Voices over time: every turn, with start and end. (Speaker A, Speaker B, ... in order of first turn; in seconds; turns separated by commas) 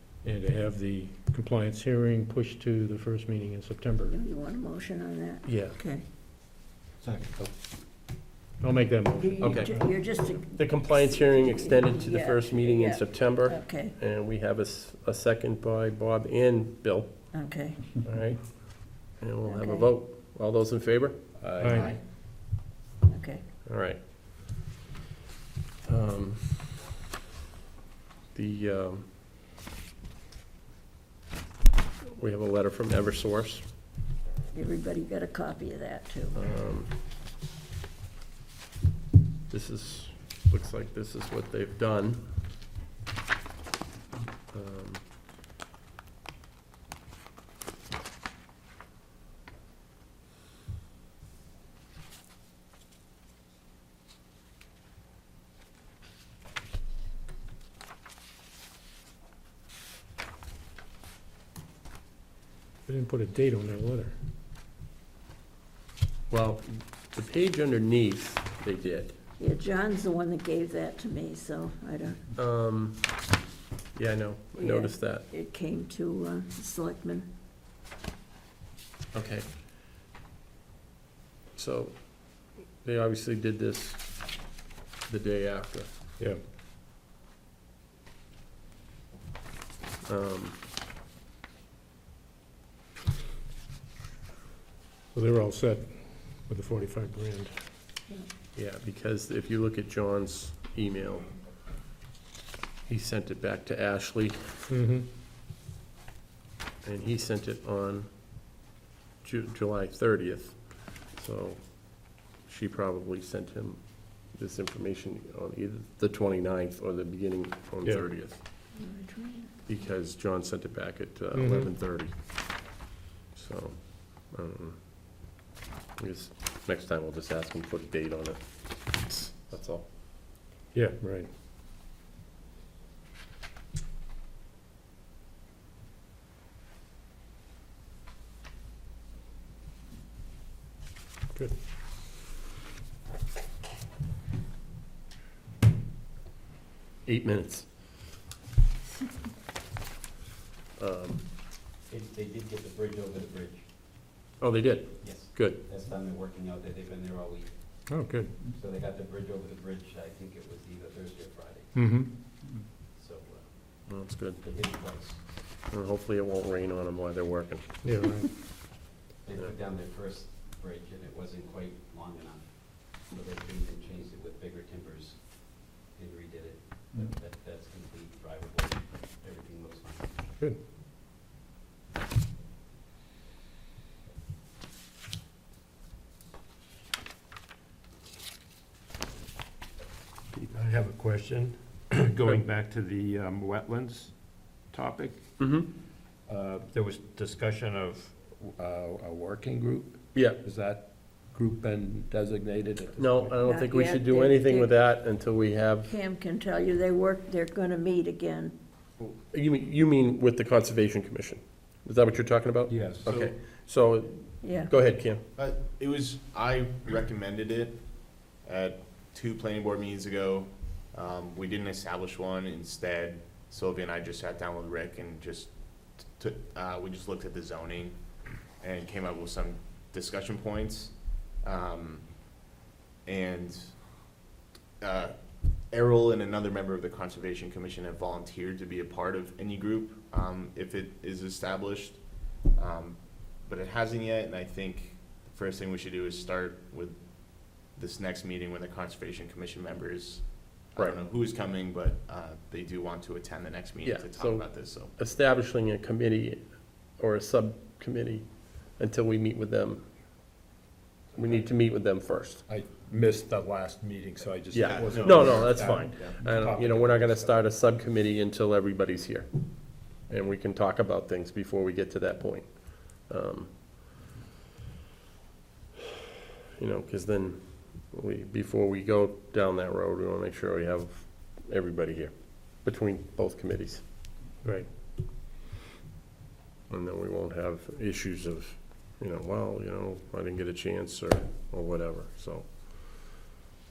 Speaker A: 0.2-4.1, Speaker B: 4.0-6.0, Speaker C: 5.4-5.8, Speaker A: 8.6-9.9, Speaker B: 9.2-13.9, Speaker C: 9.4-17.3, Speaker B: 17.3-18.0, Speaker C: 18.0-21.2, Speaker B: 19.4-19.9, Speaker D: 21.4-22.0, Speaker A: 21.6-21.9, Speaker B: 23.1-23.4, Speaker C: 23.6-24.0, Speaker C: 25.9-26.7, Speaker C: 28.3-29.1, Speaker C: 32.0-33.7, Speaker B: 34.5-36.4, Speaker C: 36.3-36.9, Speaker C: 39.5-42.2, Speaker C: 44.5-45.0, Speaker A: 62.9-64.2, Speaker C: 66.3-69.2, Speaker B: 69.4-72.2, Speaker C: 72.3-73.2, Speaker C: 73.9-75.2, Speaker B: 74.6-77.3, Speaker C: 79.1-79.5, Speaker C: 81.5-84.5, Speaker C: 85.0-85.9, Speaker C: 90.0-90.6, Speaker A: 95.1-97.5, Speaker C: 98.5-101.3, Speaker C: 102.9-104.6, Speaker A: 104.7-105.1, Speaker C: 106.8-108.1, Speaker C: 109.2-118.4, Speaker A: 117.8-118.1, Speaker B: 118.7-119.7, Speaker C: 119.7-122.7, Speaker A: 121.3-121.7, Speaker C: 123.3-124.8, Speaker C: 126.0-129.9, Speaker A: 130.7-131.3, Speaker C: 147.1-147.7, Speaker C: 150.8-151.2, Speaker E: 151.9-153.7, Speaker C: 154.4-155.6, Speaker E: 155.0-157.8, Speaker A: 157.9-158.3, Speaker E: 158.4-161.7, Speaker A: 161.7-162.2, Speaker E: 162.9-165.4, Speaker C: 163.9-164.4, Speaker C: 165.7-167.7, Speaker A: 167.8-168.3, Speaker E: 169.2-180.2, Speaker D: 190.3-195.2, Speaker C: 195.4-195.7, Speaker D: 196.3-203.3, Speaker C: 203.0-205.9, Speaker B: 203.4-204.7, Speaker B: 205.8-208.5, Speaker C: 209.0-215.2, Speaker D: 212.7-213.1, Speaker F: 213.0-213.3, Speaker B: 214.4-214.7, Speaker F: 215.3-217.8, Speaker F: 218.3-228.0, Speaker F: 228.6-232.3, Speaker F: 233.0-234.0, Speaker F: 234.8-235.2, Speaker F: 235.7-254.9, Speaker C: 253.8-259.9, Speaker C: 261.1-262.4, Speaker D: 262.5-267.3, Speaker C: 264.5-273.5, Speaker F: 264.6-266.2, Speaker C: 276.6-283.8, Speaker A: 284.4-284.7, Speaker C: 286.7-293.2